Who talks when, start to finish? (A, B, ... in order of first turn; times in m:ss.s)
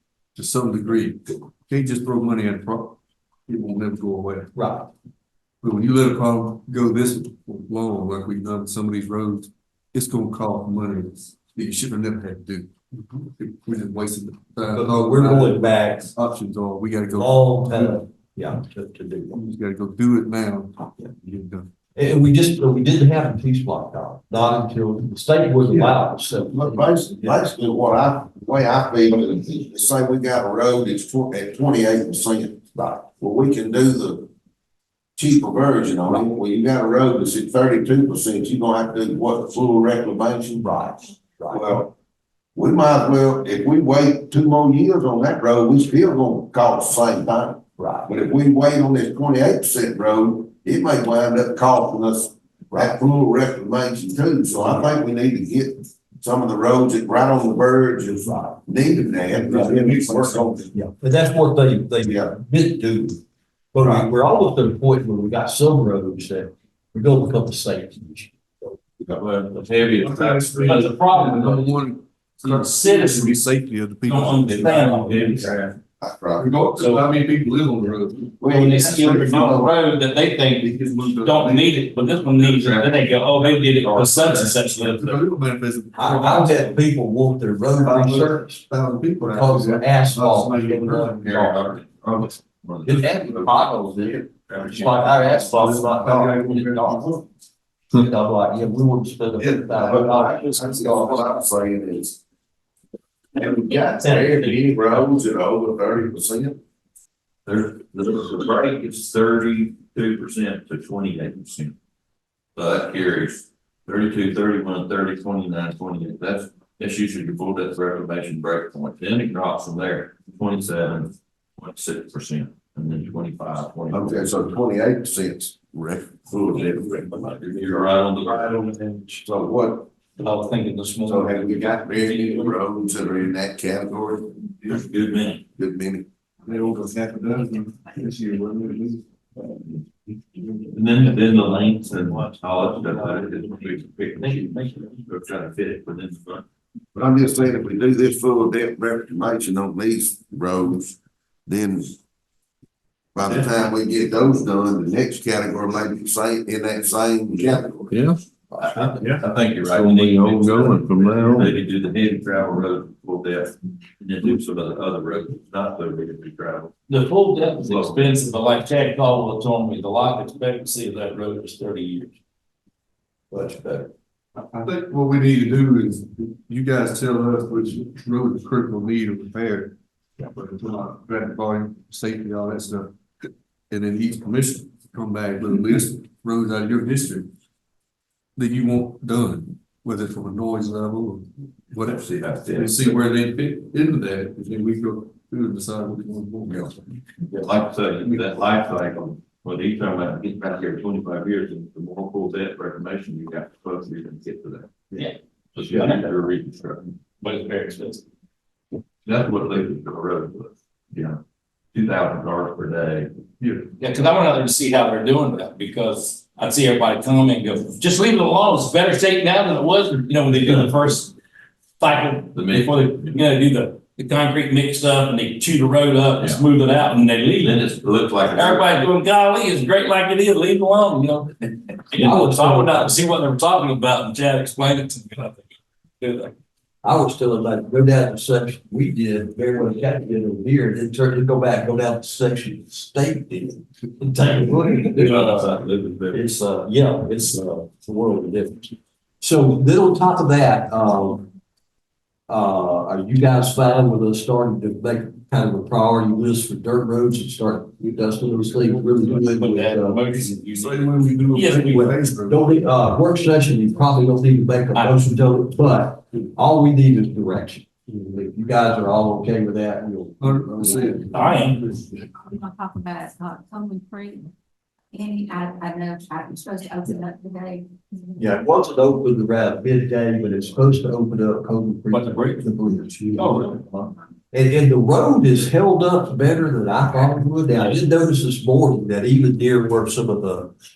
0:00.3-0:04.5 A
0:04.5-0:04.9 B
0:05.6-0:18.0 A
0:14.7-0:16.1 B
0:17.2-0:19.4 B
0:19.3-0:21.7 A
0:21.9-0:27.4 B
0:26.5-0:32.6 C
0:32.7-0:33.1 B
0:33.2-0:34.3 C
0:35.2-0:40.8 C
0:40.6-0:41.8 B
0:41.5-0:41.9 C
0:42.5-1:00.7 C
0:47.8-0:48.1 B
0:58.2-0:58.6 B
0:59.5-1:03.2 B
1:03.7-1:08.8 B
1:09.1-1:10.9 D
1:10.0-1:15.5 A
1:10.6-1:11.8 E
1:12.4-1:13.4 E
1:14.0-1:15.7 E
1:15.3-1:15.6 D
1:16.0-1:16.6 C
1:16.4-1:19.7 A
1:16.7-1:17.1 E
1:18.4-1:19.6 C
1:18.4-1:25.2 E
1:20.6-1:21.8 A
1:22.4-1:22.8 A
1:22.6-1:24.6 D
1:24.8-1:26.8 A
1:25.9-1:28.6 B
1:27.8-1:31.6 A
1:29.2-1:31.7 B
1:31.3-1:35.4 D
1:32.8-1:37.2 B
1:35.4-1:37.2 A
1:37.9-1:41.2 B
1:39.7-1:42.2 C
1:43.3-1:46.6 C
1:44.0-1:44.4 B
1:47.4-1:51.7 D
1:52.6-2:04.4 D
2:03.9-2:08.6 C
2:07.4-2:08.5 D
2:09.1-2:09.9 C
2:10.2-2:12.5 E
2:11.0-2:14.7 C
2:14.6-2:15.4 D
2:15.5-2:16.0 C
2:16.4-2:19.0 A
2:20.7-2:26.4 D
2:24.2-2:24.8 E
2:26.9-2:32.0 C
2:33.1-2:38.0 C
2:38.5-2:38.8 C
2:38.6-2:46.7 D
2:40.0-2:41.4 A
2:46.9-2:52.1 E
2:47.6-2:48.2 D
2:53.3-2:53.9 B
2:54.4-2:59.7 A
3:00.3-3:07.3 A
3:08.4-3:12.0 A
3:11.8-3:13.0 D
3:12.5-3:16.8 A
3:17.3-3:24.8 D
3:25.5-3:26.8 D
3:25.7-3:26.1 E
3:27.2-3:28.0 E
3:29.0-3:31.2 D
3:31.7-3:33.1 D
3:33.4-3:33.7 A
3:33.8-3:41.1 E
3:41.8-3:47.6 E
3:42.3-3:43.2 D
3:47.4-3:48.7 D
3:48.2-3:55.5 E
3:51.9-3:53.0 B
3:56.0-3:56.3 E
3:56.8-4:11.3 B
4:04.9-4:06.3 D
4:12.3-4:20.0 B
4:19.3-4:21.9 E
4:20.5-4:22.7 A
4:21.6-4:31.1 B
4:24.7-4:25.0 E
4:30.2-4:32.0 A
4:31.1-4:31.6 E
4:32.0-4:34.3 F
4:34.9-4:38.2 F
4:38.2-4:50.5 B
4:41.9-4:42.5 E
4:43.1-4:43.6 E